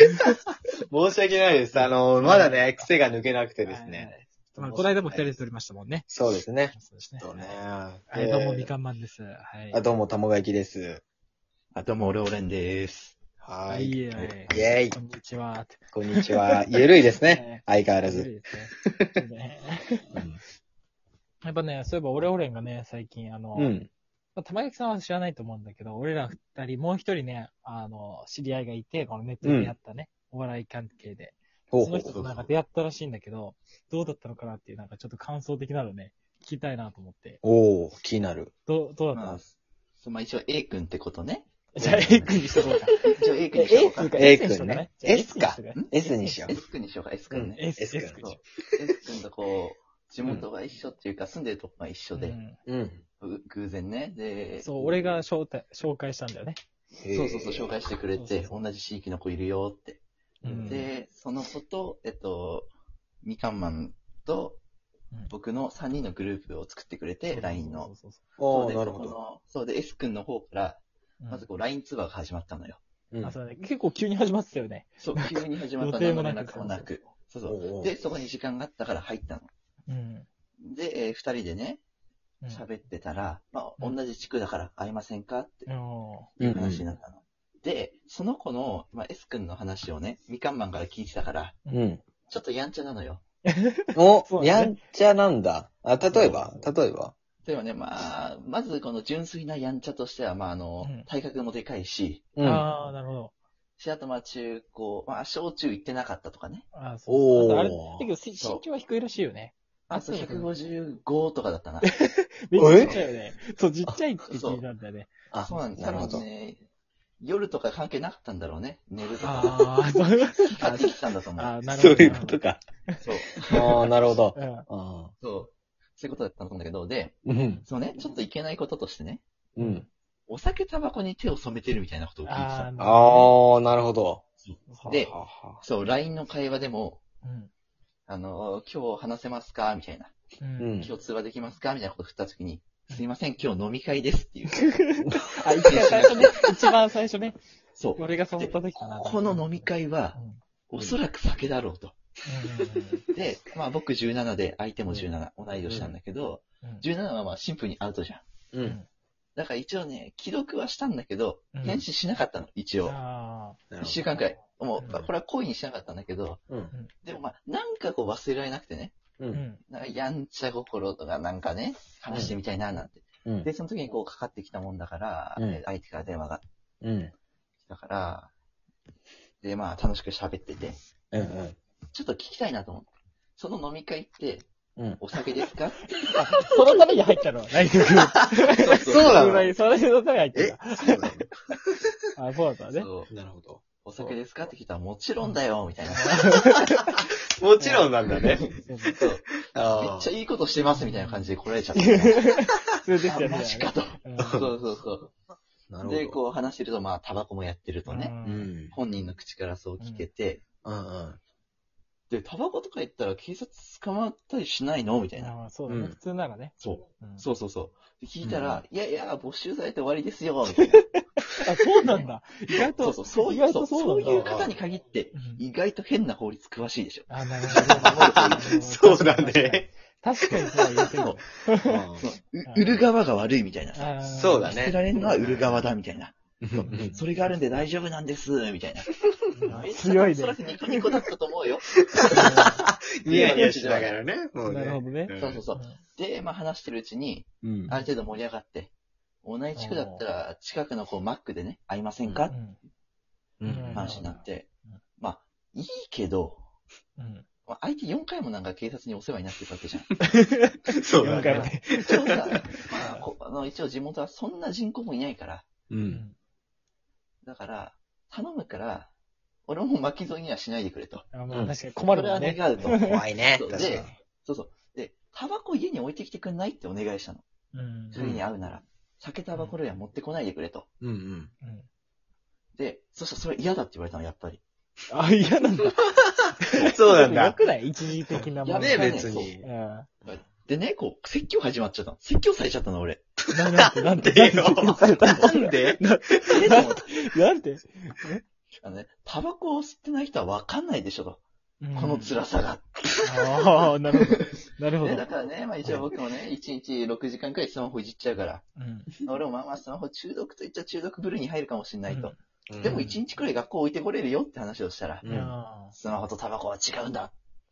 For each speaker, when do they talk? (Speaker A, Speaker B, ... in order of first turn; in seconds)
Speaker A: 0.9-4.1, 4.6-5.4, 6.1-8.7, 9.7-11.0, 13.4-14.9, 15.9-18.3, 18.9-19.1, 20.1-20.4, 23.6-23.9, 29.4-29.7, 31.7-32.5, 37.4-38.5, 42.2-42.6, 44.1-46.6, 47.3-48.2, 52.6-53.0, 57.0-57.7, 60.4-60.8, 68.4-69.2, 73.1-73.4, 77.5-77.9, 86.4-86.8, 91.7-92.0, 94.0-97.1, 102.4-102.7, 107.1-108.1, 112.5-113.1, 115.3-116.2, 121.7-122.6, 123.5-125.1, 127.3-127.6, 129.6-129.8, 132.8-134.2, 134.9-135.6, 140.6-140.9, 155.7-155.9, 158.5-158.8, 163.7-164.0, 169.2-169.4, 172.1-172.3, 176.8-177.1, 181.1-181.6, 188.9-189.5, 190.3-191.8, 193.1-194.1, 197.0-198.5, 199.5-200.1, 204.2-204.5, 205.7-206.2, 208.2-208.8, 210.6-211.2, 215.7-216.0, 218.2-218.6, 224.1-224.5, 227.5-229.7, 231.6-232.0, 234.2-235.6, 236.4-236.9, 241.9-245.4, 247.4-247.7, 253.4-253.9, 260.8-261.9, 265.7-266.0, 272.8-273.9, 278.0-278.2, 280.8-281.3, 286.6-287.4, 288.5-289.5, 293.4-296.6, 312.5-312.8, 315.0-315.3
Speaker B: 1.7-2.9, 3.6-6.1, 6.7-7.6, 8.1-9.8, 13.7-16.6, 17.1-20.2, 21.4-23.7, 24.4-37.4, 38.7-39.4, 41.8-46.4, 47.5-48.4, 52.1-52.6, 54.6-56.6, 58.1-58.5, 60.4-60.9, 67.3-68.2, 71.2-71.5, 73.2-76.9, 79.9-80.3, 85.7-86.4, 93.5-94.8, 96.1-96.7, 100.8-101.1, 102.4-103.3, 106.7-110.5, 111.8-116.0, 119.2-123.0, 124.3-124.7, 129.6-129.9, 132.2-133.4, 134.7-135.1, 137.2-137.5, 140.4-140.9, 144.5-147.4, 148.0-150.4, 152.2-153.0, 158.6-158.9, 161.5-161.8, 162.8-163.6, 169.3-169.6, 186.1-191.2, 192.2-192.9, 195.2-197.0, 197.6-197.9, 198.5-199.0, 200.6-204.5, 207.9-208.5, 209.8-210.1, 215.2-217.3, 221.4-224.4, 225.1-225.4, 227.1-231.8, 232.4-232.8, 233.7-235.6, 236.7-237.2, 239.3-240.4, 242.1-243.5, 244.5-245.8, 249.6-250.0, 252.3-252.6, 253.4-254.8, 257.0-257.3, 260.1-263.1, 265.9-266.2, 271.1-273.9, 277.5-278.0, 281.4-281.7, 284.9-285.8, 286.4-289.9, 293.3-298.2, 301.6-302.1, 303.0-305.1, 308.6-308.9, 311.9-312.1, 312.7-313.0, 315.1-315.8
Speaker C: 11.8-13.2, 14.1-14.7, 39.1-42.4, 43.1-44.4, 46.5-52.4, 53.2-54.9, 57.1-60.0, 60.7-62.7, 63.2-64.6, 65.3-67.9, 68.5-72.8, 75.0-79.5, 80.6-81.8, 82.5-85.7, 86.4-91.6, 92.3-93.2, 97.4-102.5, 103.8-106.7, 108.3-108.7, 109.9-111.9, 114.3-114.6, 115.4-116.6, 117.2-122.2, 123.0-123.9, 125.2-129.2, 130.3-132.7, 134.4-137.0, 138.1-140.1, 140.8-144.7, 145.7-146.5, 147.8-150.2, 150.7-152.0, 153.1-158.3, 159.4-163.0, 163.8-166.4, 167.0-168.9, 169.7-176.4, 177.6-178.3, 179.4-180.8, 181.9-184.5, 185.0-186.8, 188.5-189.4, 192.7-193.1, 193.8-196.3, 198.4-202.3, 203.1-205.1, 205.8-208.2, 208.7-210.4, 212.1-215.4, 216.6-221.0, 221.9-228.6, 230.8-231.2, 232.0-238.9, 239.5-244.0, 245.2-248.7, 249.2-252.4, 253.7-256.4, 257.5-259.9, 261.0-265.5, 267.2-268.9, 269.5-271.1, 271.9-277.2, 277.9-280.7, 282.6-284.4, 288.4-289.4, 290.0-293.1, 296.3-296.9, 298.6-301.2, 301.7-304.2, 304.8-308.4, 309.0-315.1, 315.7-317.1